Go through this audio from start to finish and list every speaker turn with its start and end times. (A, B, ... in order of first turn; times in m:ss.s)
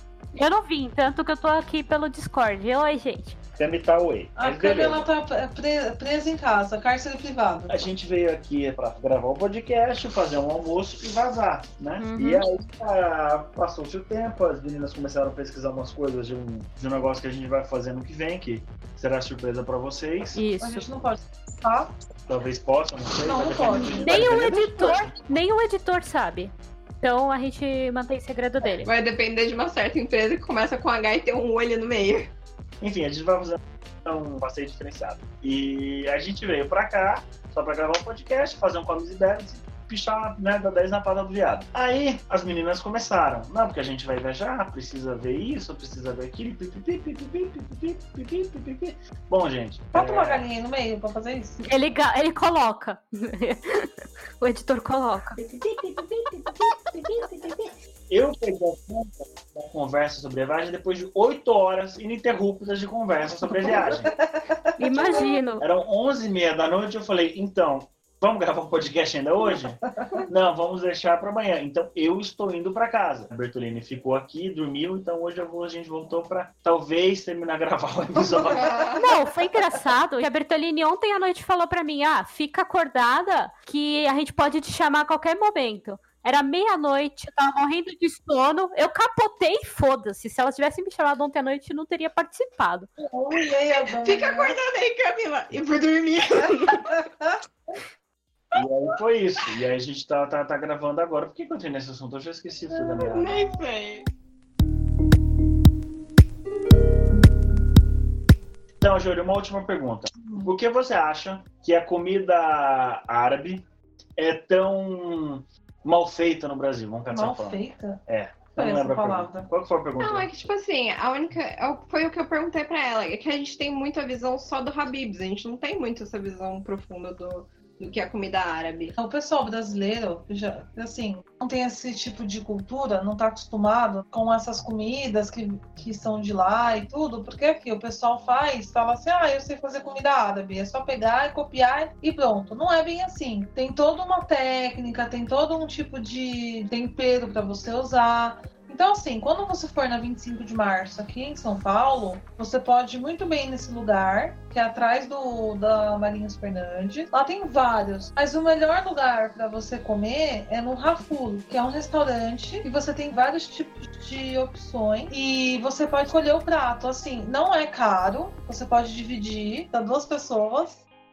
0:00.3-0:03.4 A
0:03.6-0:05.1 B
0:04.4-0:07.9 C
0:07.7-0:20.4 B
0:12.0-0:12.4 A
0:20.4-0:20.9 A
0:20.6-0:21.9 C
0:22.3-0:25.2 B
0:23.2-0:24.0 C
0:23.9-0:28.9 A
0:28.8-0:32.3 D
0:32.8-0:50.5 B
0:49.9-0:51.6 C
0:51.6-0:55.4 A
0:55.4-0:57.6 B
0:58.1-1:04.1 B
1:03.8-1:05.3 C
1:04.8-1:05.6 A
1:05.6-1:18.9 B
1:18.4-1:19.1 D
1:19.0-1:32.9 A
1:33.0-1:34.6 C
1:33.9-1:37.0 D
1:36.7-1:37.4 C
1:38.5-1:43.4 B
1:43.0-1:44.1 D
1:48.8-1:53.6 B
1:50.2-1:50.5 C
1:54.2-2:00.3 B
1:57.1-1:58.0 C
1:58.6-1:59.5 C
2:00.0-2:09.0 D
2:09.0-2:50.8 C